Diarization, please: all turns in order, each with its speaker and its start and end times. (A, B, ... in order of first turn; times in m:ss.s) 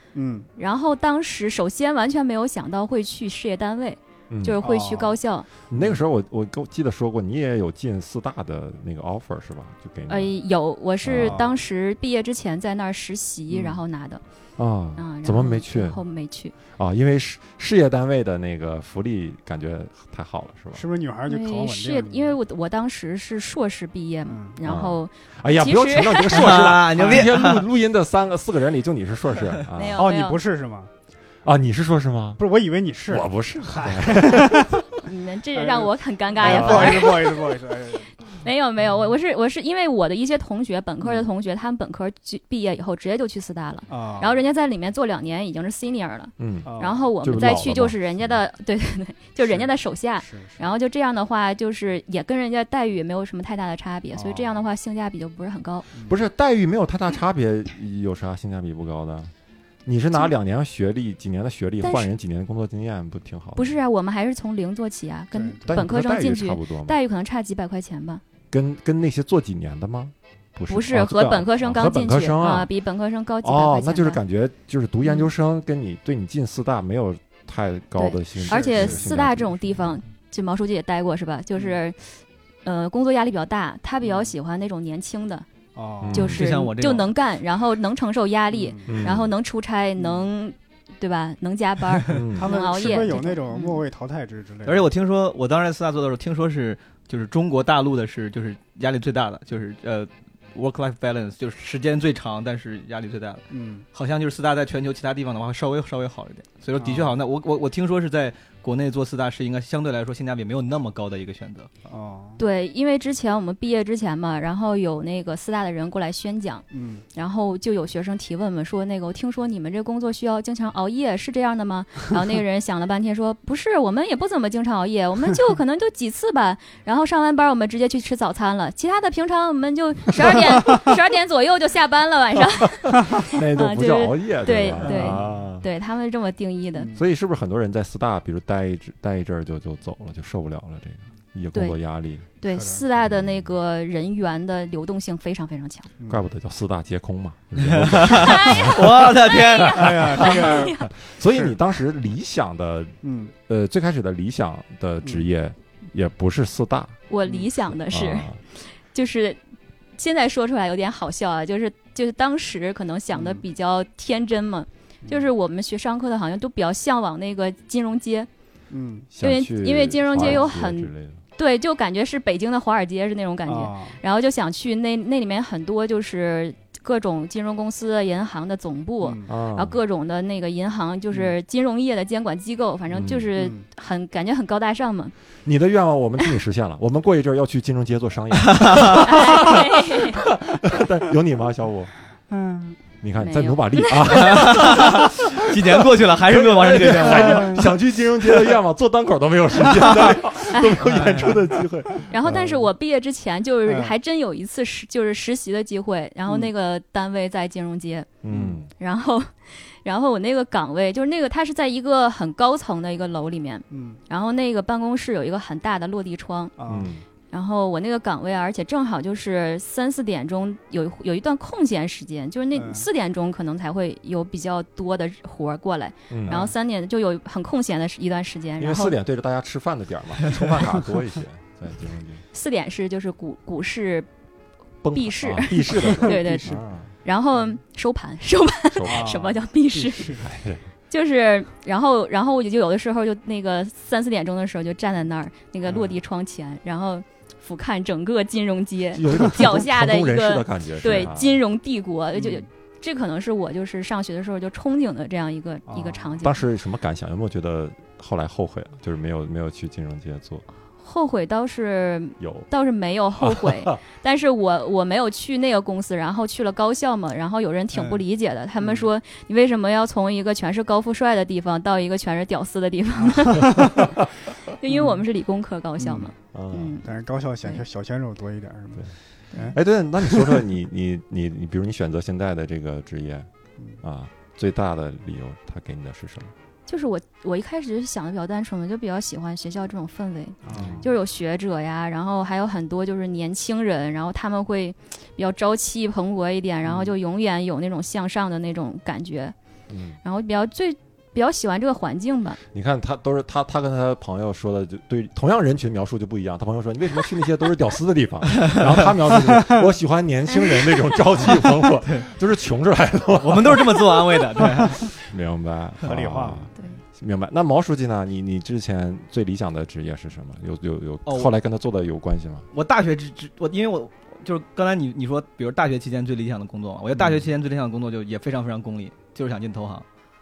0:00.1-0:00.5 A
0:00.6-0:05.5 B
0:04.3-0:04.6 C
0:04.6-0:05.2 A
0:05.7-0:10.3 C
0:05.8-0:06.0 A
0:10.1-0:14.2 B
0:11.0-0:11.4 C
0:11.1-0:11.6 A
0:13.5-0:13.8 A
0:14.6-0:16.0 C
0:15.0-0:16.5 B
0:16.7-0:20.8 C
0:20.7-0:22.4 A
0:21.3-0:26.5 B
0:24.3-0:24.6 A
0:24.6-0:30.0 C
0:26.3-0:27.6 D
0:27.0-0:27.2 A
0:29.7-0:30.4 B
0:30.0-0:30.9 A
0:31.4-0:32.4 C
0:32.4-0:34.8 A
0:33.1-0:34.8 C
0:35.0-0:37.4 B
0:35.6-0:38.1 A
0:36.4-0:37.2 C
0:38.4-0:55.8 B
0:43.9-0:44.4 A
0:46.4-0:48.4 C
0:46.6-0:47.0 A
0:49.4-0:50.6 A
0:54.1-0:54.6 A
0:56.0-0:59.3 C
0:59.8-1:03.8 C
1:01.8-1:02.1 B
1:03.5-1:08.2 B
1:05.3-1:05.7 A
1:05.7-1:07.0 C
1:08.5-1:12.7 C
1:10.7-1:14.2 B
1:13.4-1:20.0 C
1:18.0-1:25.4 B
1:18.5-1:19.0 A
1:24.0-1:24.3 A
1:25.8-1:26.3 A
1:26.0-1:26.4 C
1:26.1-1:33.8 B
1:26.2-1:27.1 D
1:28.5-1:29.0 A
1:28.8-1:29.3 C
1:30.0-1:30.2 A
1:32.1-1:32.5 C
1:32.3-1:34.9 A
1:34.6-1:51.7 D
1:43.5-1:43.8 A
1:46.8-1:47.1 A
1:51.9-1:52.4 A
1:52.4-2:16.9 B
1:56.7-1:57.0 A
2:12.8-2:15.6 C
2:14.7-2:15.4 A
2:16.7-2:17.0 A
2:16.9-2:22.2 C
2:22.4-2:25.9 B
2:22.5-2:22.8 A
2:23.0-2:23.4 C
2:26.1-2:33.0 C
2:27.6-2:30.3 D
2:28.2-2:28.6 B
2:29.7-2:31.5 A
2:30.2-2:30.9 B
2:33.0-2:33.3 A
2:33.5-2:37.0 C
2:37.1-2:39.4 B
2:37.9-2:38.4 C
2:40.0-2:48.3 B
2:43.1-2:43.4 A
2:48.7-2:49.1 A
2:49.1-2:51.2 C
2:49.2-3:05.1 B
2:50.1-2:50.5 A
2:53.4-2:54.0 A
2:59.0-2:59.3 A
2:59.2-2:59.8 C
3:02.9-3:03.3 C
3:03.4-3:03.6 A
3:05.4-3:11.9 C
3:08.4-3:09.0 D
3:09.0-3:10.2 B
3:12.3-3:12.8 A
3:13.0-3:22.6 C
3:13.2-3:14.4 B
3:14.0-3:17.6 D
3:17.0-3:17.6 A
3:20.5-3:20.8 B
3:20.9-3:21.3 D
3:22.1-3:28.1 B
3:23.6-3:23.9 A
3:28.2-3:28.7 C
3:28.3-3:28.6 A
3:28.8-3:36.5 B
3:33.7-3:34.0 A
3:36.6-3:36.9 A
3:36.6-3:37.0 C
3:37.3-3:49.0 B
3:42.5-3:42.8 A
3:46.1-3:46.5 C
3:46.3-3:46.5 A
3:48.6-3:52.2 C
3:52.3-3:54.1 B
3:54.8-3:56.9 C
3:54.9-4:00.2 B
3:55.9-3:56.6 A
3:58.7-3:59.3 C
3:58.8-4:00.3 A
4:00.1-4:00.6 C
4:00.9-4:16.4 B
4:05.7-4:05.9 A
4:08.9-4:11.4 C
4:12.1-4:12.4 A
4:15.7-4:16.2 A
4:16.2-4:20.4 C
4:20.8-4:33.8 B
4:22.2-4:22.5 C
4:23.2-4:23.8 C
4:27.7-4:28.0 A
4:28.6-4:28.9 A
4:33.0-4:33.8 A
4:34.5-4:36.8 B
4:34.7-4:35.0 A
4:35.8-4:36.1 A
4:36.3-4:36.8 C
4:36.8-4:40.4 A
4:39.5-4:43.3 C
4:43.8-4:46.3 C
4:46.7-4:59.3 B
4:50.4-4:50.9 A
4:50.5-4:50.8 C
4:56.7-4:56.9 A
4:59.7-5:00.0 C
5:00.0-5:02.4 B
5:02.5-5:14.0 C
5:13.2-5:14.9 D
5:15.0-5:22.5 C
5:15.8-5:16.5 A
5:21.0-5:21.3 D
5:22.5-5:29.8 D
5:27.0-5:27.2 C